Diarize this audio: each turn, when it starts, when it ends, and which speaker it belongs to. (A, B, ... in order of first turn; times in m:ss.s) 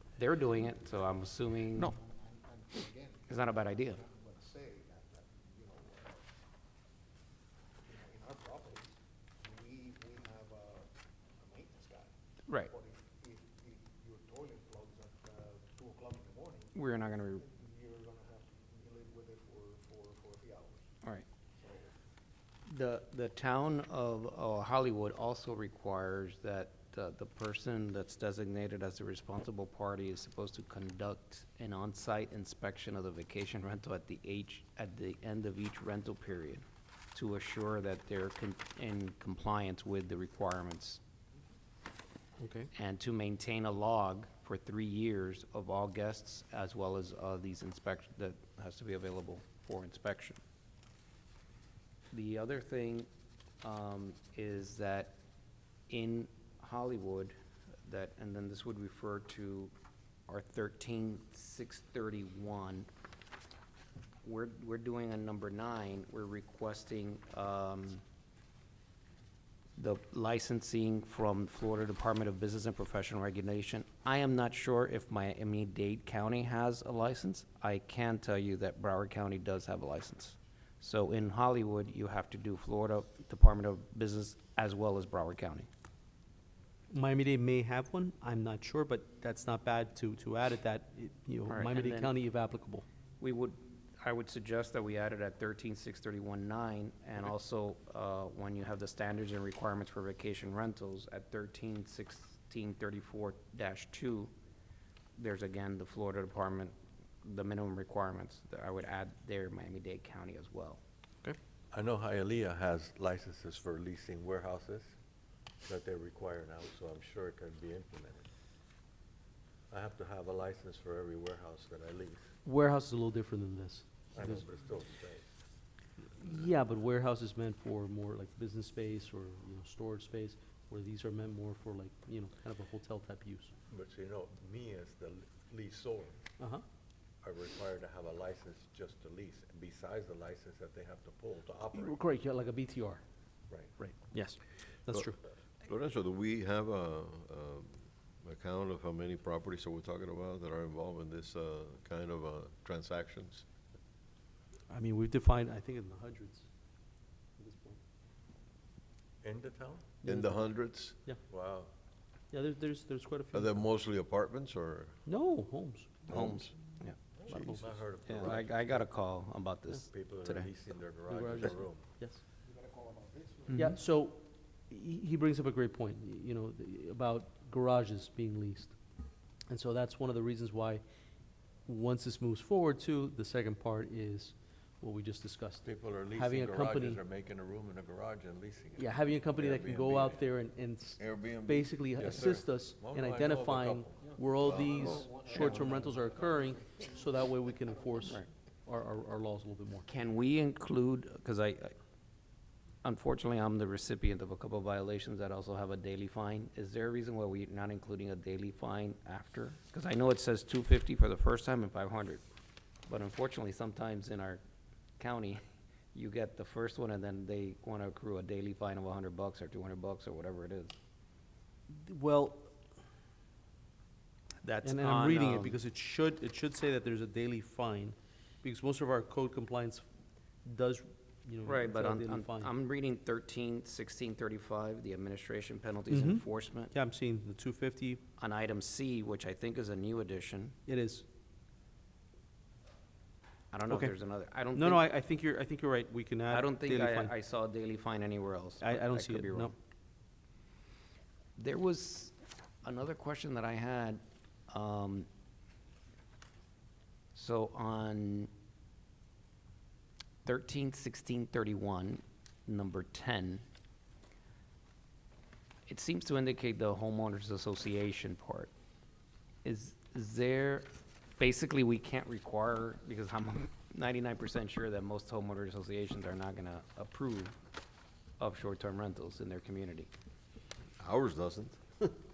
0:00.2-0:01.9 A
0:02.0-0:06.2 B
0:03.3-0:04.0 A
0:07.8-0:10.9 B
0:11.4-0:12.1 B
0:12.7-0:16.7 B
0:16.7-0:17.4 A
0:17.4-0:20.8 B
0:21.6-0:21.9 B
0:22.7-0:41.0 A
0:42.7-0:50.4 A
0:52.1-0:53.1 A
0:53.6-0:55.2 A
0:55.9-0:59.7 A
1:00.3-1:02.9 A
1:04.2-1:08.0 A
1:09.8-1:25.7 A
1:26.9-1:32.8 C
1:31.5-1:32.1 A
1:33.2-1:44.3 A
1:45.2-1:50.8 A
1:51.7-1:55.0 D
1:55.6-1:58.2 D
1:59.7-2:02.3 D
2:02.4-2:04.4 C
2:04.1-2:05.3 D
2:06.2-2:13.5 C
2:13.7-2:16.2 D
2:16.4-2:16.6 C
2:17.2-2:22.0 D
2:21.7-2:23.0 C
2:23.8-2:25.2 C
2:25.6-2:33.4 E
2:34.7-2:36.4 C
2:37.4-2:37.8 C
2:39.2-2:39.9 D
2:40.0-2:41.0 E
2:40.0-2:41.2 C
2:41.3-2:41.7 D
2:42.3-2:43.6 C
2:43.3-2:45.0 E
2:45.0-2:45.9 C
2:46.1-2:47.0 A
2:46.1-2:46.5 E
2:47.3-2:47.8 C
2:47.3-2:48.9 D
2:48.0-2:50.5 A
2:49.8-2:51.9 D
2:51.1-2:52.2 C
2:52.4-2:53.6 B
2:53.5-2:58.8 C
2:59.5-3:00.8 C
3:01.6-3:07.0 C
3:05.6-3:10.3 D
3:08.8-3:19.8 C
3:11.0-3:11.7 E
3:11.9-3:14.1 D
3:14.1-3:16.9 B
3:14.4-3:15.1 E
3:18.0-3:18.3 A
3:19.8-3:21.7 A
3:22.8-3:32.2 A
3:32.9-3:34.4 A
3:35.0-3:35.4 A
3:35.9-3:40.7 A
3:41.7-3:42.5 C
3:44.4-3:49.8 C
3:44.6-3:45.6 A
3:50.4-3:52.5 C
3:51.4-3:56.7 A
3:55.9-3:58.0 C
3:58.2-4:00.5 A
4:00.6-4:01.0 C
4:03.5-4:04.8 A
4:03.7-4:04.0 C
4:04.5-4:07.1 C
4:06.3-4:09.5 A
4:08.6-4:09.5 C
4:11.4-4:15.1 A
4:17.1-4:18.3 A
4:20.2-4:23.4 A
4:25.7-4:28.5 A
4:29.4-4:37.3 A
4:38.2-4:39.9 A
4:40.8-4:42.0 E